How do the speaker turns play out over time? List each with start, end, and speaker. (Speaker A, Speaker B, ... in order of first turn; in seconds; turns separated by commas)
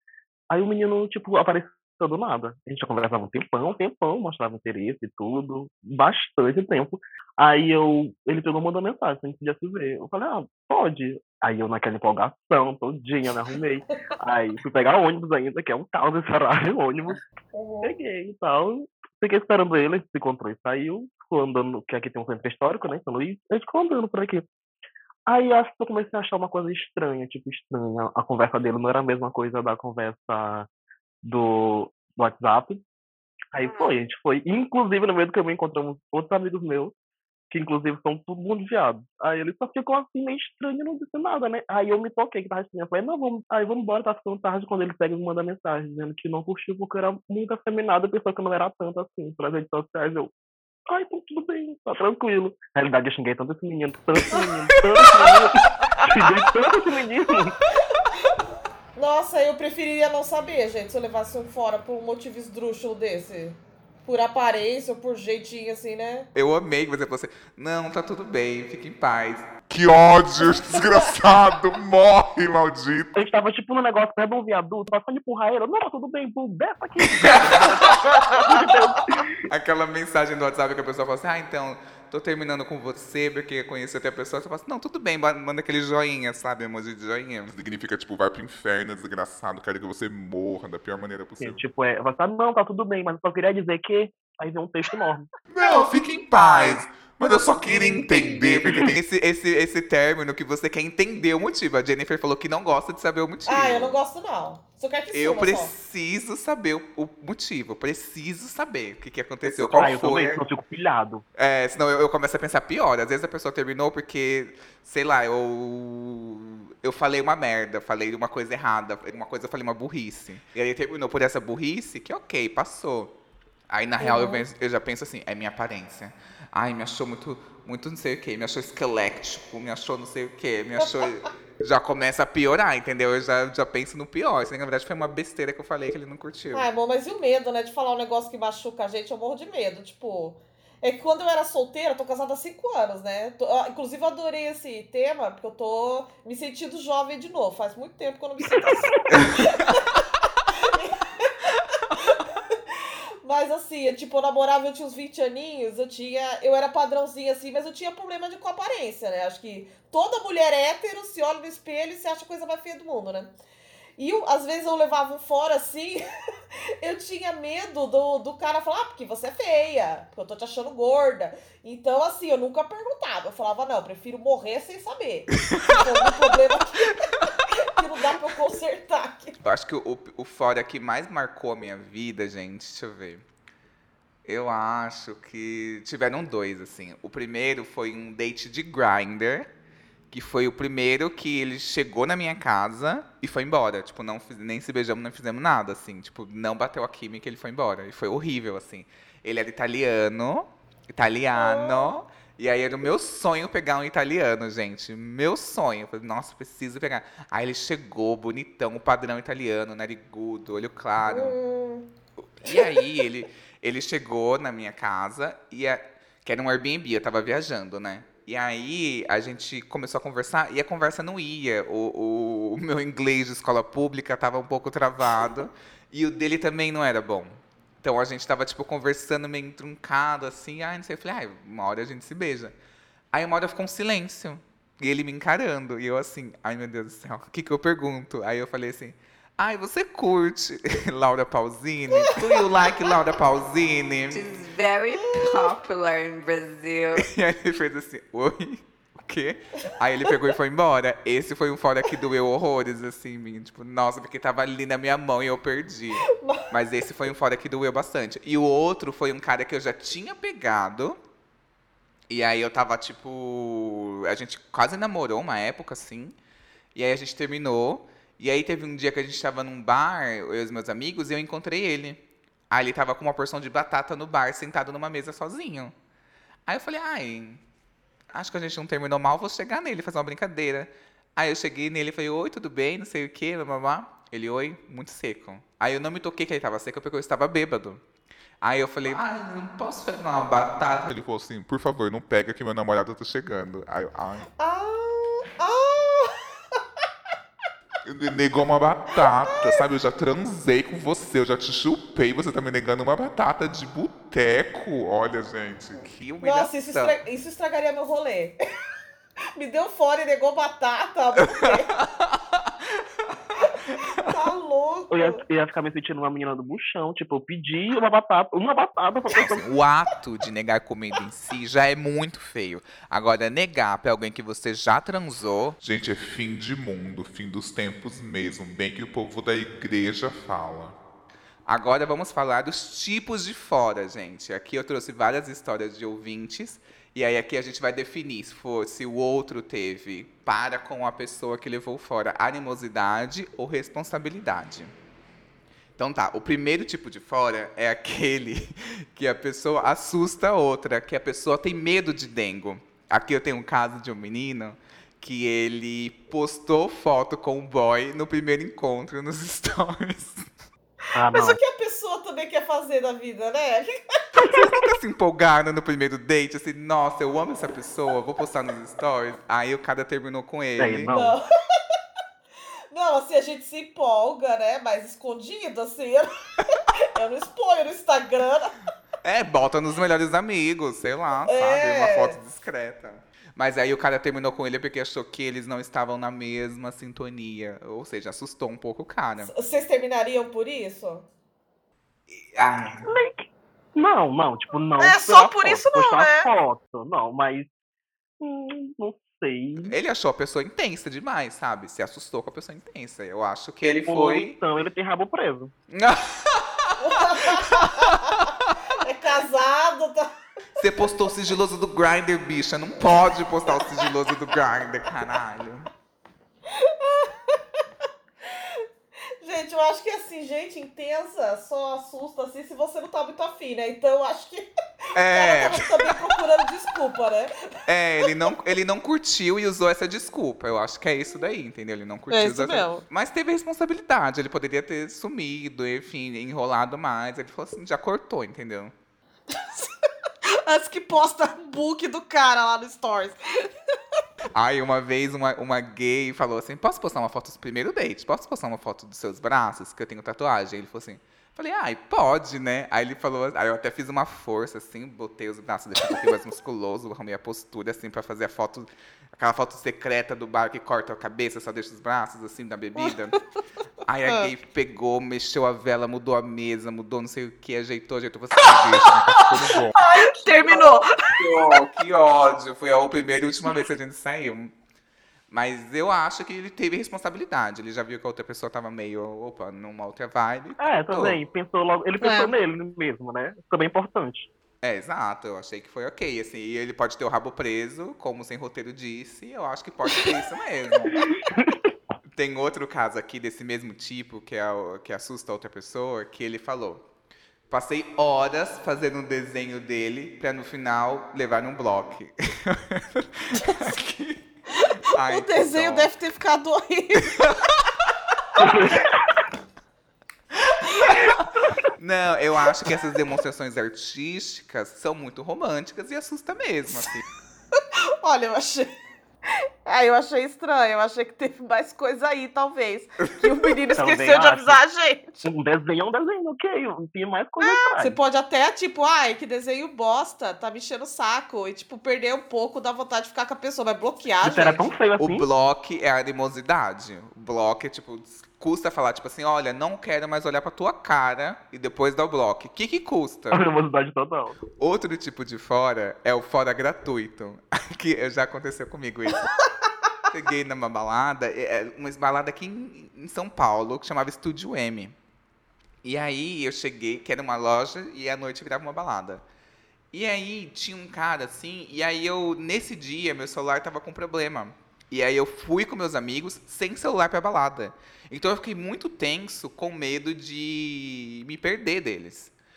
Speaker A: 0.5-17.2, Speaker B: 17.5-17.9, Speaker A: 17.8-24.5, Speaker A: 25.3-30.7, Speaker A: 31.2-32.8, Speaker A: 33.5-36.9, Speaker B: 33.6-33.9, Speaker A: 37.5-50.3, Speaker A: 50.9-57.6, Speaker B: 59.0-66.3, Speaker C: 66.3-69.5, Speaker D: 69.7-73.1, Speaker A: 73.2-79.3, Speaker C: 77.2-78.4, Speaker C: 79.5-87.5, Speaker D: 87.5-91.6, Speaker A: 91.4-95.3, Speaker D: 95.5-99.0, Speaker B: 95.6-96.0, Speaker C: 96.2-103.9, Speaker B: 103.5-105.7, Speaker C: 105.1-110.4, Speaker A: 109.4-111.2, Speaker C: 111.4-123.1, Speaker C: 123.7-136.7, Speaker B: 124.0-124.4, Speaker B: 136.5-152.6, Speaker B: 153.2-163.3, Speaker B: 164.0-166.0, Speaker B: 166.8-179.3, Speaker C: 179.4-183.2, Speaker C: 184.2-189.5, Speaker C: 190.1-211.3, Speaker B: 201.3-201.9, Speaker B: 211.1-211.9, Speaker C: 212.4-232.5, Speaker B: 212.5-212.8, Speaker C: 233.1-244.3, Speaker E: 244.1-247.1, Speaker C: 247.0-261.0, Speaker B: 256.1-256.4, Speaker C: 262.1-266.1, Speaker C: 266.7-275.7, Speaker C: 276.5-277.4, Speaker C: 278.1-287.8, Speaker C: 288.4-290.9, Speaker D: 290.9-294.3, Speaker B: 294.4-296.2, Speaker D: 297.8-305.9, Speaker B: 299.2-299.6, Speaker C: 305.8-306.9, Speaker B: 306.2-308.4, Speaker B: 309.3-311.7, Speaker C: 311.5-312.8, Speaker B: 313.4-315.2, Speaker A: 314.9-319.4, Speaker C: 319.1-325.6, Speaker D: 325.6-330.8, Speaker C: 331.5-344.7, Speaker C: 345.8-360.3, Speaker A: 360.9-361.4, Speaker B: 361.1-363.8, Speaker C: 364.2-370.9, Speaker A: 370.6-371.1, Speaker B: 370.9-371.2, Speaker B: 372.7-378.6, Speaker C: 379.0-389.3, Speaker B: 381.3-382.2, Speaker B: 389.2-391.1, Speaker C: 392.2-392.9, Speaker A: 392.8-397.5, Speaker B: 394.8-396.3, Speaker A: 398.2-399.7, Speaker C: 399.6-404.4, Speaker A: 403.8-405.5, Speaker C: 405.7-408.1, Speaker B: 406.8-408.1, Speaker B: 408.8-410.1, Speaker C: 410.6-415.7, Speaker B: 416.5-417.4, Speaker B: 418.3-418.6, Speaker B: 419.2-427.3, Speaker C: 424.9-425.9, Speaker C: 427.6-438.7, Speaker B: 432.1-432.8, Speaker B: 439.3-443.5, Speaker C: 444.3-463.2, Speaker C: 463.9-469.6, Speaker D: 468.5-469.8, Speaker B: 469.1-471.2, Speaker C: 471.1-474.5, Speaker C: 475.3-481.2, Speaker A: 480.6-484.3, Speaker B: 482.0-482.3, Speaker C: 484.6-491.1, Speaker A: 490.9-491.7, Speaker C: 492.1-496.8, Speaker C: 497.5-504.2, Speaker B: 504.6-507.2, Speaker C: 504.8-505.9, Speaker A: 508.4-509.0, Speaker B: 510.5-511.0, Speaker C: 510.8-511.1, Speaker C: 511.8-517.0, Speaker B: 517.7-518.7, Speaker B: 519.6-525.3, Speaker A: 523.8-524.6, Speaker A: 525.2-528.0, Speaker B: 527.4-534.7, Speaker A: 534.2-535.2, Speaker C: 535.0-543.4, Speaker A: 543.3-544.4, Speaker C: 544.5-549.4, Speaker C: 550.1-554.9, Speaker C: 555.8-559.2, Speaker C: 559.9-572.3